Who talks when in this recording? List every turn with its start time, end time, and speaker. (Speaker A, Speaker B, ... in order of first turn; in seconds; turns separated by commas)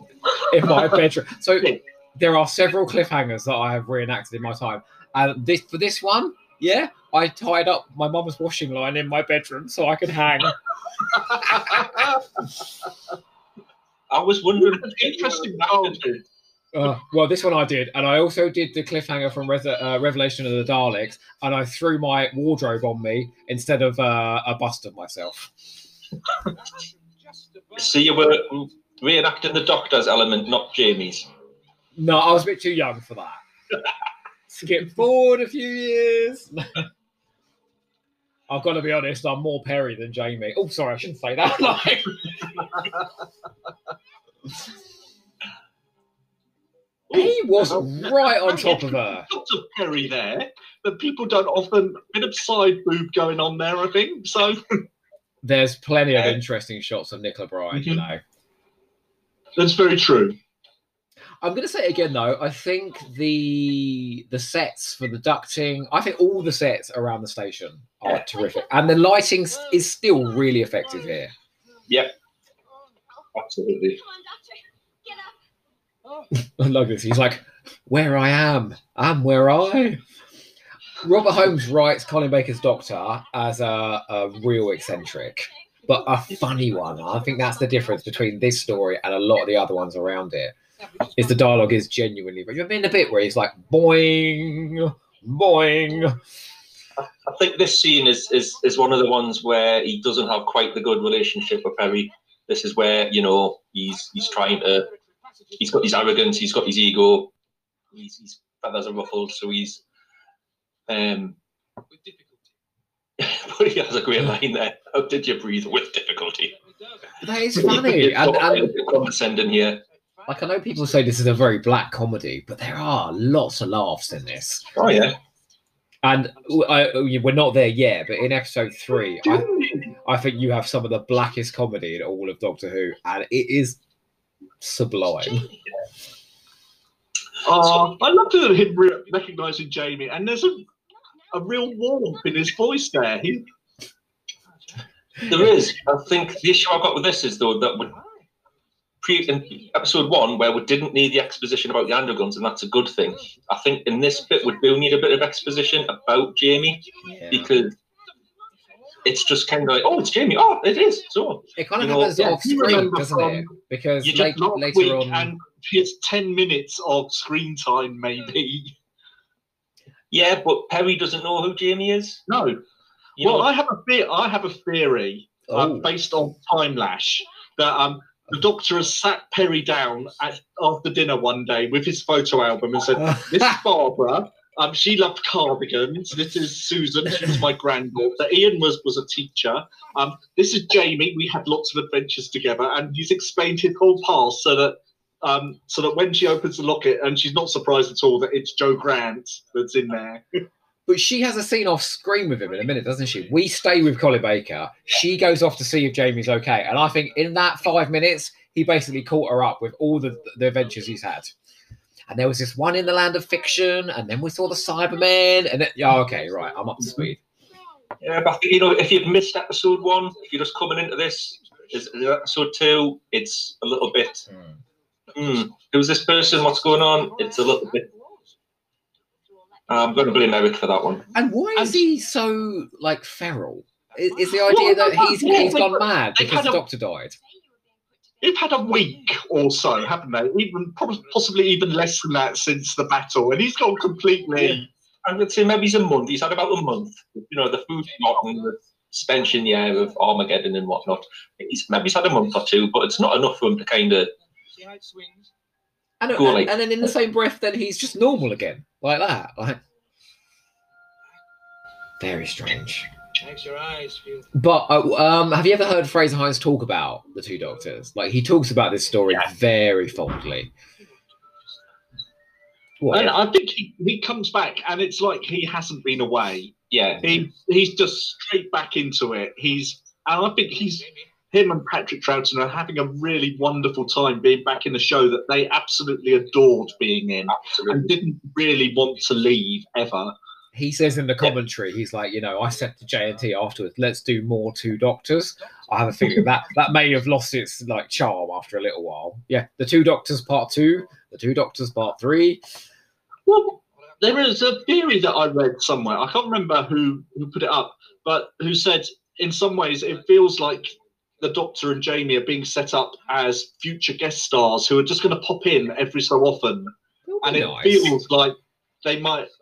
Speaker A: 0.3-10.6, Speaker A: 11.1-12.0, Speaker B: 14.1-16.0, Speaker C: 14.6-16.2, Speaker A: 16.7-25.5, Speaker D: 26.7-28.4, Speaker B: 27.8-31.3, Speaker A: 31.9-33.4, Speaker A: 34.5-36.9, Speaker A: 38.5-42.5, Speaker C: 47.1-54.8, Speaker A: 47.1-49.3, Speaker A: 55.4-58.2, Speaker C: 57.7-58.0, Speaker C: 59.6-60.4, Speaker A: 61.4-71.3, Speaker B: 73.3-74.0, Speaker A: 76.3-80.0, Speaker A: 81.0-90.5, Speaker A: 91.1-96.2, Speaker B: 97.0-104.9, Speaker B: 105.6-107.3, Speaker B: 107.9-109.8, Speaker B: 110.9-111.3, Speaker D: 111.9-112.4, Speaker B: 113.2-116.5, Speaker A: 117.2-118.7, Speaker B: 117.5-119.8, Speaker A: 120.3-124.7, Speaker B: 124.7-125.2, Speaker A: 126.0-133.8, Speaker C: 129.2-129.9, Speaker A: 134.6-135.5, Speaker C: 137.4-140.7, Speaker C: 141.3-143.4, Speaker B: 145.3-147.9, Speaker B: 149.0-157.7, Speaker A: 157.0-157.5, Speaker B: 159.0-162.2, Speaker A: 161.6-165.3, Speaker C: 162.2-163.5, Speaker C: 164.0-168.7, Speaker B: 170.1-172.2, Speaker C: 172.3-172.6, Speaker C: 173.2-200.4, Speaker B: 173.2-173.5, Speaker A: 175.5-175.9, Speaker A: 200.9-211.3, Speaker A: 212.1-217.2, Speaker B: 218.0-224.2, Speaker A: 224.3-224.6, Speaker B: 225.1-227.8, Speaker B: 229.7-231.1, Speaker A: 231.1-237.2, Speaker C: 231.6-231.8, Speaker C: 234.3-236.6, Speaker C: 238.2-244.7, Speaker B: 245.0-254.1, Speaker D: 254.5-255.3, Speaker A: 256.0-259.6, Speaker B: 256.1-256.5, Speaker A: 262.0-262.9, Speaker D: 263.2-264.3, Speaker A: 264.3-270.5, Speaker A: 272.8-273.1, Speaker C: 272.9-290.1, Speaker B: 276.7-277.1, Speaker B: 287.3-287.9, Speaker A: 290.5-302.4, Speaker C: 303.3-316.7, Speaker A: 317.1-317.9, Speaker C: 317.2-319.3